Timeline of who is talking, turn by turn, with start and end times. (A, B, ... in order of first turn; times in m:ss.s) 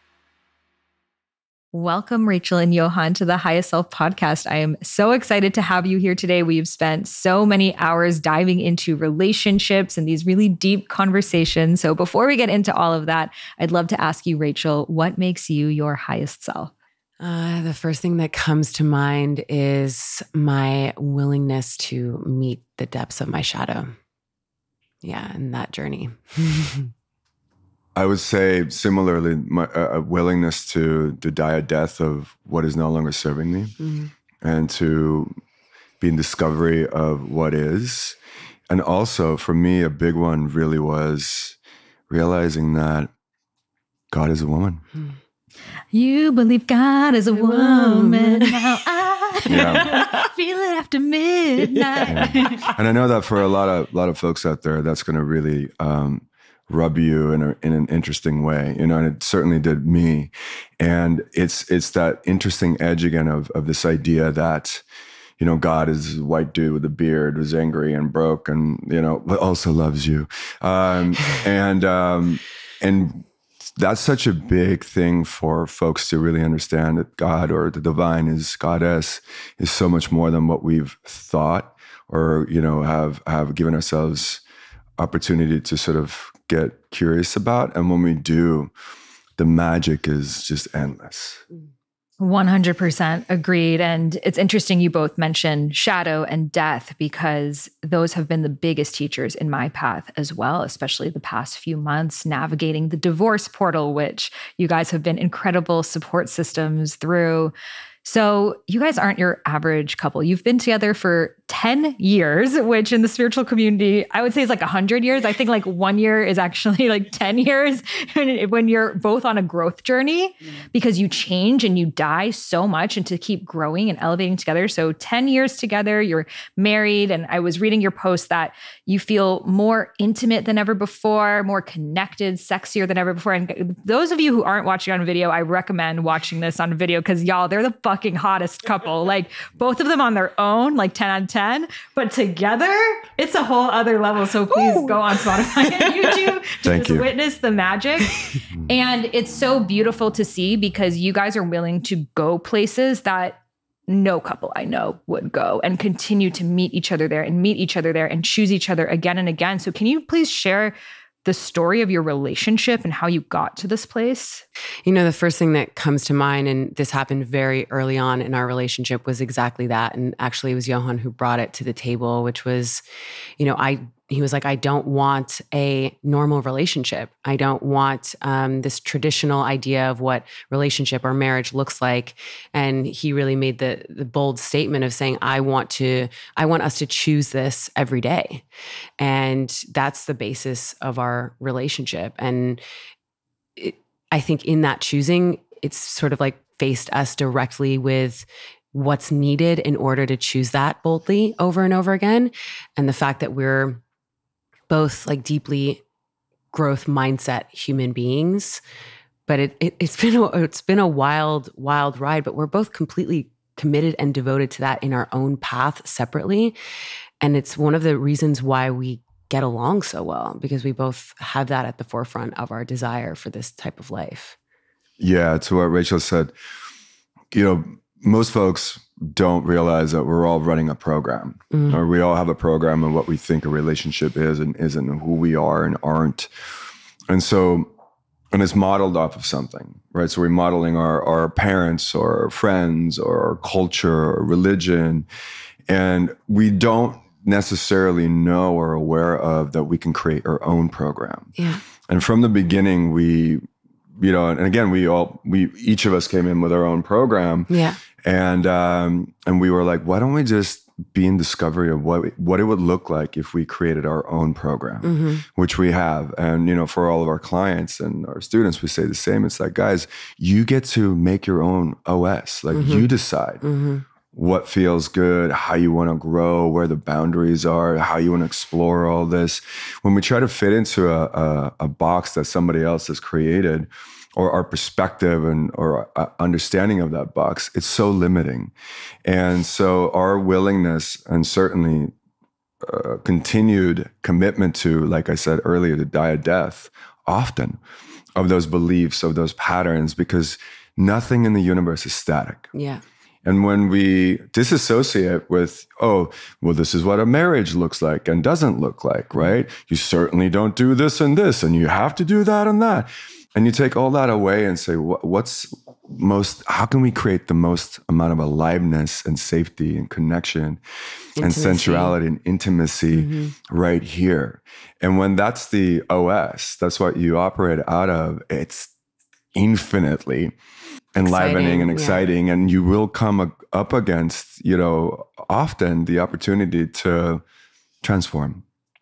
0:01.7-0:16.7 A
0:17.2-0:23.9 B
0:25.0-0:26.9 B
0:28.0-0:33.7 C
0:33.8-0:34.1 B
0:34.4-0:35.3 C
0:36.0-0:38.2 C
0:38.7-0:41.6 C
0:42.1-0:43.1 C
0:44.1-0:44.8 C
0:45.9-0:52.6 A
0:47.4-0:48.5 B
0:49.5-0:50.0 C
0:49.5-0:50.1 B
0:52.0-0:52.7 B
0:52.1-1:04.8 C
1:05.4-1:24.4 C
1:25.0-1:28.7 C
1:29.4-1:31.4 C
1:32.2-1:47.5 A
1:48.0-2:28.1 A
2:24.6-2:24.9 B
2:26.6-2:27.1 C
2:28.7-2:44.4 A
2:44.8-2:52.8 B
2:53.4-3:08.4 B
3:09.0-3:12.6 B
3:13.6-3:23.8 B
3:24.7-3:25.8 B
3:26.5-3:28.6 B
3:29.3-3:36.6 B
3:37.2-3:44.4 B
3:45.0-3:46.3 C
3:47.3-3:56.3 C
3:51.5-3:51.8 B
3:57.1-3:57.7 C
3:58.3-4:05.0 C
4:05.7-4:11.3 C
4:11.4-4:11.6 B
4:11.9-4:13.4 C
4:14.0-4:17.5 C
4:17.5-4:17.8 B
4:18.0-4:33.4 C
4:24.8-4:25.2 B
4:32.5-4:32.9 B
4:33.4-4:33.8 B
4:34.1-4:48.5 C
4:49.0-4:51.9 C
4:52.6-4:57.6 C
4:58.2-5:02.5 C
5:02.5-5:02.8 B
5:03.2-5:20.6 C
5:21.2-5:22.0 B
5:21.2-5:28.7 C
5:22.9-5:23.3 B
5:29.3-5:30.3 C
5:30.9-5:37.2 C
5:31.0-5:32.0 B
5:37.8-5:38.4 C